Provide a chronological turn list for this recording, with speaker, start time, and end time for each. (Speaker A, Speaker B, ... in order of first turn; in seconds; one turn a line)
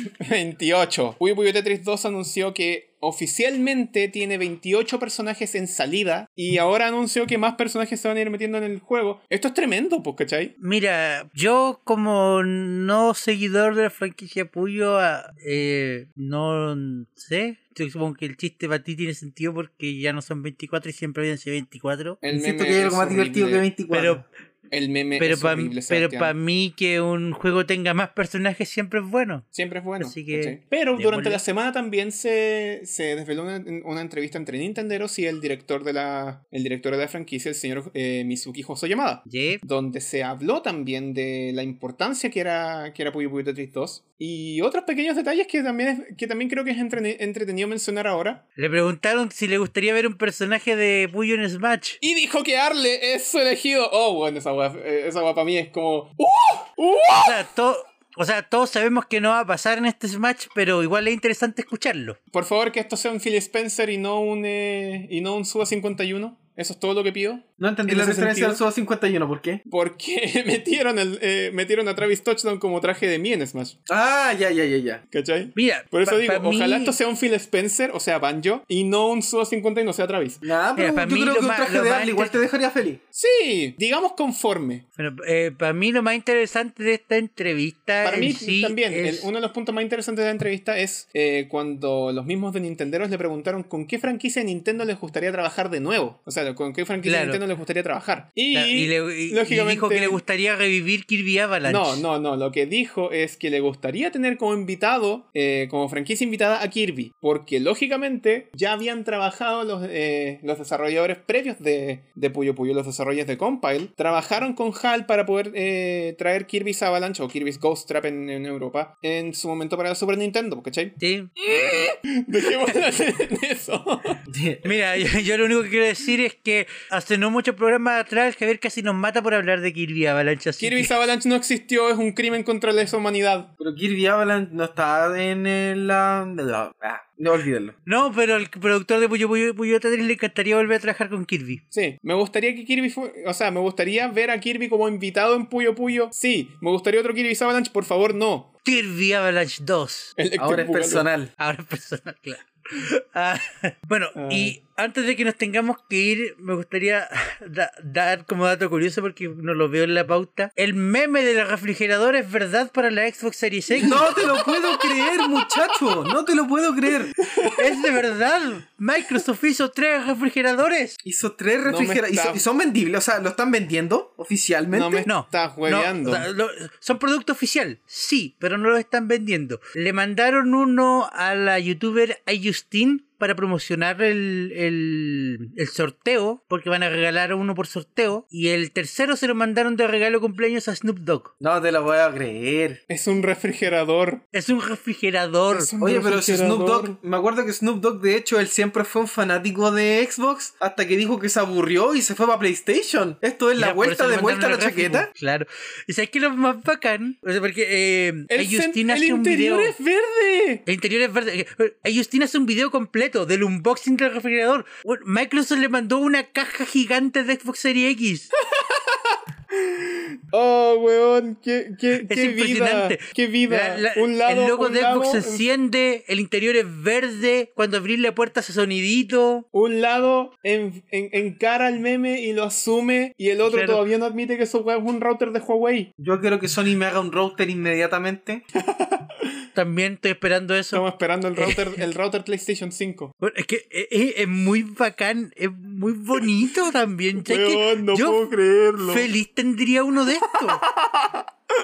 Speaker A: 0.2-10.5
Speaker B: 10.6-22.2
Speaker A: 22.2-23.7
Speaker C: 22.3-24.2
Speaker B: 23.9-24.2
Speaker A: 24.7-26.3
Speaker B: 25.2-29.5
Speaker A: 29.5-48.4
Speaker B: 30.0-31.4
Speaker B: 39.3-39.6
Speaker B: 48.6-52.0
Speaker A: 52.0-57.4
Speaker B: 57.1-62.2
Speaker A: 62.3-68.6
Speaker C: 67.6-69.6
Speaker A: 69.7-73.8
Speaker C: 73.9-75.0
Speaker A: 75.1-80.4
Speaker B: 75.5-76.9
Speaker C: 80.4-83.0
Speaker B: 80.8-82.4
Speaker A: 83.1-84.8
Speaker B: 85.0-89.3
Speaker A: 88.0-100.2
Speaker B: 97.0-97.4
Speaker B: 98.5-102.0
Speaker A: 101.6-121.0
Speaker B: 121.0-121.5
Speaker A: 121.5-124.2
Speaker C: 124.2-124.7
Speaker B: 124.6-130.9
Speaker A: 130.6-133.5
Speaker C: 133.6-137.8
Speaker B: 137.8-141.6
Speaker A: 141.7-148.5
Speaker B: 148.6-150.2
Speaker A: 150.2-151.1
Speaker C: 150.4-151.3
Speaker B: 151.4-164.2
Speaker A: 154.1-154.6
Speaker C: 163.8-167.2
Speaker A: 163.8-165.8
Speaker A: 167.2-167.8
Speaker B: 167.5-171.0
Speaker C: 171.0-175.1
Speaker A: 171.6-172.4
Speaker A: 174.7-176.3
Speaker B: 175.1-191.3
Speaker C: 191.4-192.8
Speaker A: 192.9-194.2
Speaker B: 194.3-195.7
Speaker A: 195.5-196.9
Speaker C: 195.8-205.1
Speaker B: 203.6-209.8
Speaker A: 208.3-210.7
Speaker B: 210.7-218.3
Speaker A: 218.5-225.4
Speaker B: 222.1-229.4
Speaker A: 229.5-235.9
Speaker B: 233.4-233.8
Speaker C: 236.0-238.4
Speaker A: 238.6-239.3
Speaker B: 239.5-240.8
Speaker A: 240.7-243.1
Speaker B: 241.4-241.8
Speaker B: 243.2-248.2
Speaker A: 247.2-249.1
Speaker B: 248.9-250.6
Speaker A: 250.2-251.2